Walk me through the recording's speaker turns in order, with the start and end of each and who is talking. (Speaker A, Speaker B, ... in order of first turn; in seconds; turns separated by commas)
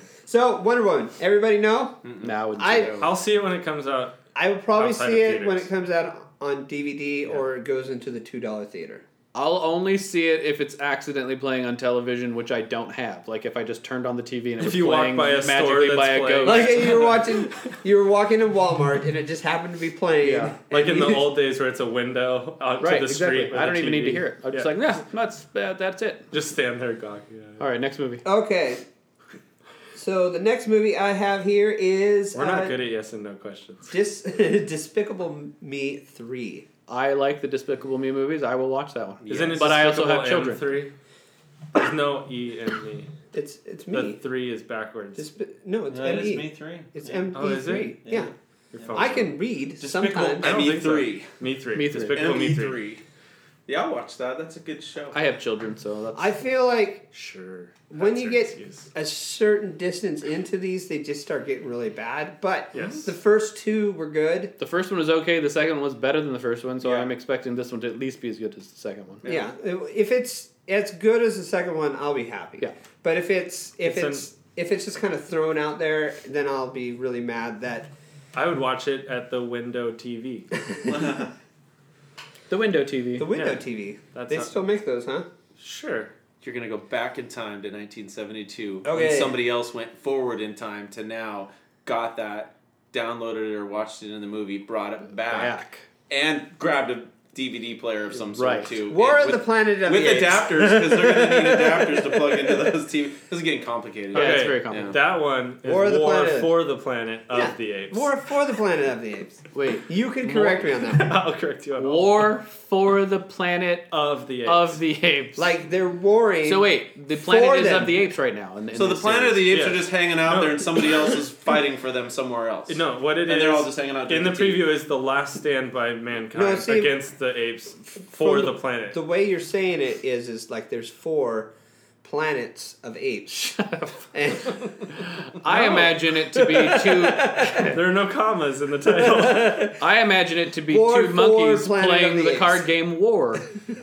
Speaker A: 0.2-2.0, Speaker B: 2.0-3.1, Speaker C: 2.2-3.0, Speaker A: 2.6-3.0, Speaker D: 3.0-4.2, Speaker A: 4.3-9.0, Speaker D: 4.8-5.7, Speaker C: 9.3-17.0, Speaker D: 14.6-17.5, Speaker A: 16.4-21.3, Speaker C: 20.2-20.5, Speaker D: 20.7-24.7, Speaker C: 22.8-26.2, Speaker D: 26.3-27.6, Speaker C: 27.6-28.2, Speaker A: 28.2-28.8, Speaker A: 29.9-32.8, Speaker D: 32.3-33.9, Speaker A: 33.9-36.6, Speaker C: 36.9-40.6, Speaker B: 39.2-39.7, Speaker D: 39.3-40.9, Speaker D: 41.7-43.1, Speaker A: 43.3-44.2, Speaker D: 43.9-45.2, Speaker A: 45.1-48.3, Speaker B: 45.9-47.3, Speaker D: 47.3-48.0, Speaker B: 48.0-49.2, Speaker D: 48.7-49.3, Speaker A: 48.9-50.6, Speaker B: 49.8-51.3, Speaker D: 50.4-52.8, Speaker C: 51.7-52.4, Speaker B: 52.0-53.0, Speaker B: 53.7-55.2, Speaker C: 55.1-56.3, Speaker A: 56.1-57.0, Speaker D: 57.1-58.9, Speaker A: 57.9-64.5, Speaker D: 62.7-63.0, Speaker C: 64.6-69.2, Speaker B: 66.8-67.1, Speaker B: 69.2-69.5, Speaker A: 69.2-77.9, Speaker D: 73.8-74.3, Speaker D: 78.3-80.6, Speaker B: 80.8-81.3, Speaker C: 82.5-83.3, Speaker A: 83.2-85.3, Speaker D: 84.1-84.5, Speaker D: 85.6-86.1, Speaker B: 86.4-105.0, Speaker A: 88.8-89.4, Speaker C: 95.3-95.8, Speaker C: 98.3-98.7, Speaker A: 98.8-102.7, Speaker C: 104.1-105.0, Speaker D: 104.1-108.1, Speaker A: 105.6-106.6, Speaker A: 107.3-111.1, Speaker C: 109.5-109.8, Speaker D: 110.2-112.3, Speaker C: 111.8-113.9, Speaker D: 113.9-114.8, Speaker C: 114.4-115.5, Speaker A: 115.3-118.0, Speaker C: 116.4-119.5, Speaker B: 118.7-124.7, Speaker D: 119.5-121.2, Speaker D: 122.7-129.0, Speaker A: 126.3-127.0, Speaker A: 128.1-131.5, Speaker A: 132.0-134.7, Speaker C: 133.4-134.0, Speaker C: 135.3-137.8, Speaker D: 135.5-135.8, Speaker A: 135.5-137.8, Speaker D: 137.5-139.7, Speaker A: 138.9-139.8, Speaker C: 139.8-143.5, Speaker A: 140.7-142.7